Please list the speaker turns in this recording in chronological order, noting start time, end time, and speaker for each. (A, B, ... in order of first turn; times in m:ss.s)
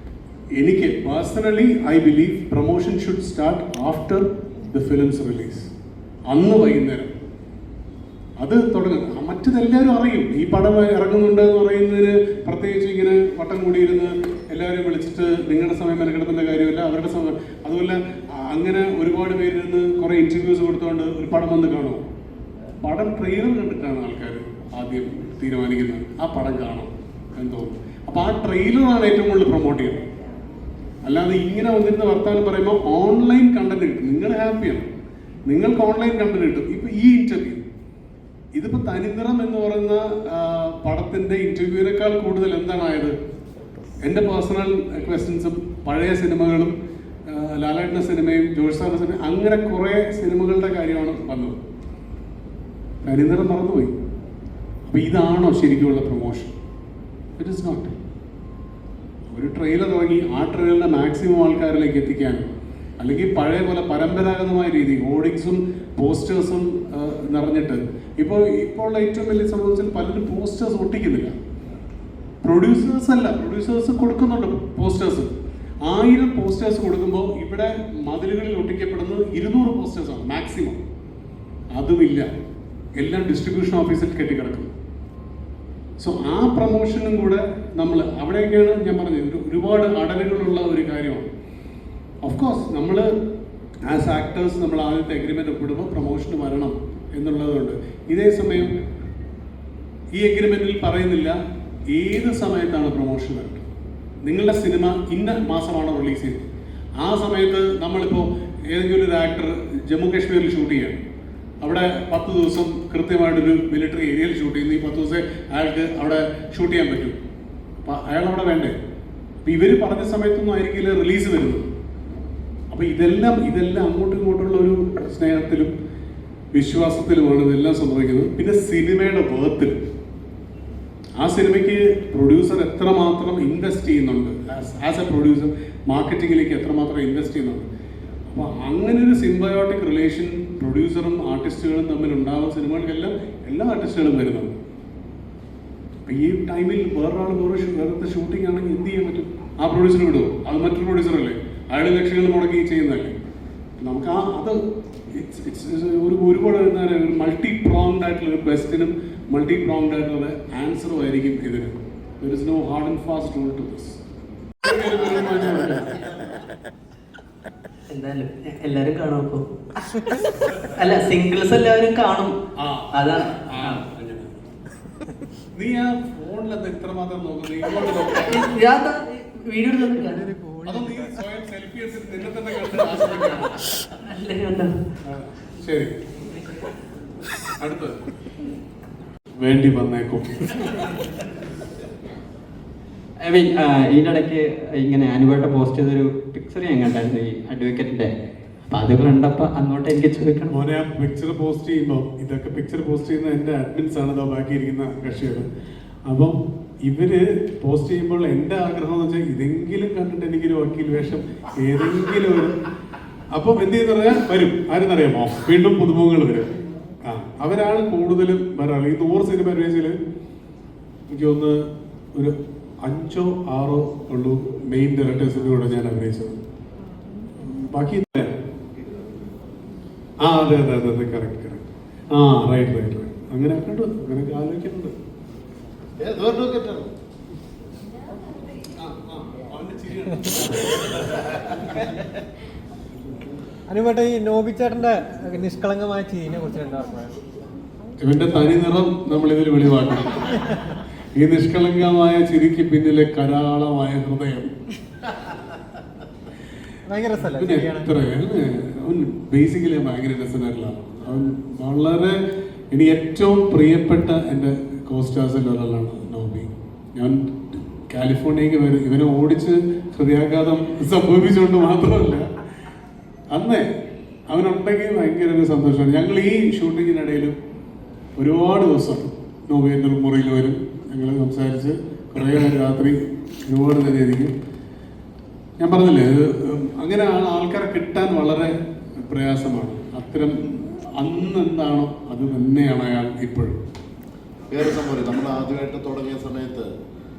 0:00.6-0:05.7 A
0:06.3-0:07.1 A
0:08.4-0:22.0 A
0:22.8-0:30.1 A
0:31.0-0:34.9 A
0:35.5-0:37.6 A
0:38.6-0:43.2 A
0:44.0-0:46.8 A
0:47.3-0:51.6 A
0:53.0-0:53.9 A
0:54.9-0:56.5 A
0:57.4-0:57.9 A
0:59.3-1:02.5 A
1:03.0-1:11.3 A
1:12.4-1:15.3 A
1:15.8-1:20.8 A
1:21.7-1:22.3 A
1:23.0-1:24.7 A
1:26.0-1:31.3 A
1:32.2-1:33.1 A
1:33.9-1:38.8 A
1:40.1-1:41.4 A
1:41.9-1:43.7 A
1:44.2-1:46.5 A
1:47.0-1:51.0 A
1:51.6-1:57.2 A
1:57.8-1:58.8 A
1:59.4-2:01.6 A
2:02.7-2:05.7 A
2:06.5-2:09.8 A
2:11.2-2:17.7 A
2:18.3-2:24.6 A
2:26.1-2:33.2 A
2:33.8-2:34.6 A
2:35.1-2:44.0 A
2:44.6-2:46.0 A
2:47.9-2:49.4 B
2:50.8-2:52.4 B
2:52.6-2:52.9 A
2:53.0-2:53.9 B
2:53.4-2:54.5 A
2:55.6-2:58.5 A
2:58.3-3:00.3 B
3:00.6-3:03.6 A
3:04.1-3:04.7 B
3:05.0-3:05.9 A
3:07.6-3:08.0 A
3:09.4-3:10.8 A
3:13.2-3:18.1 C
3:18.7-3:20.5 C
3:20.5-3:25.5 A
3:26.1-3:32.6 A
3:33.3-3:40.0 A
3:41.1-3:46.4 A
3:47.4-3:48.4 A
3:50.2-3:55.0 A
3:56.0-3:56.9 D
3:58.8-4:01.3 A
4:03.7-4:07.2 E
4:08.0-4:10.4 A
4:11.2-4:14.5 A
4:16.9-4:17.9 E
4:17.2-4:22.2 A
4:22.7-4:32.3 A
4:33.3-4:33.7 A
4:34.3-4:37.4 A
4:38.2-4:44.3 A
4:45.6-4:53.6 A
4:54.5-4:56.7 D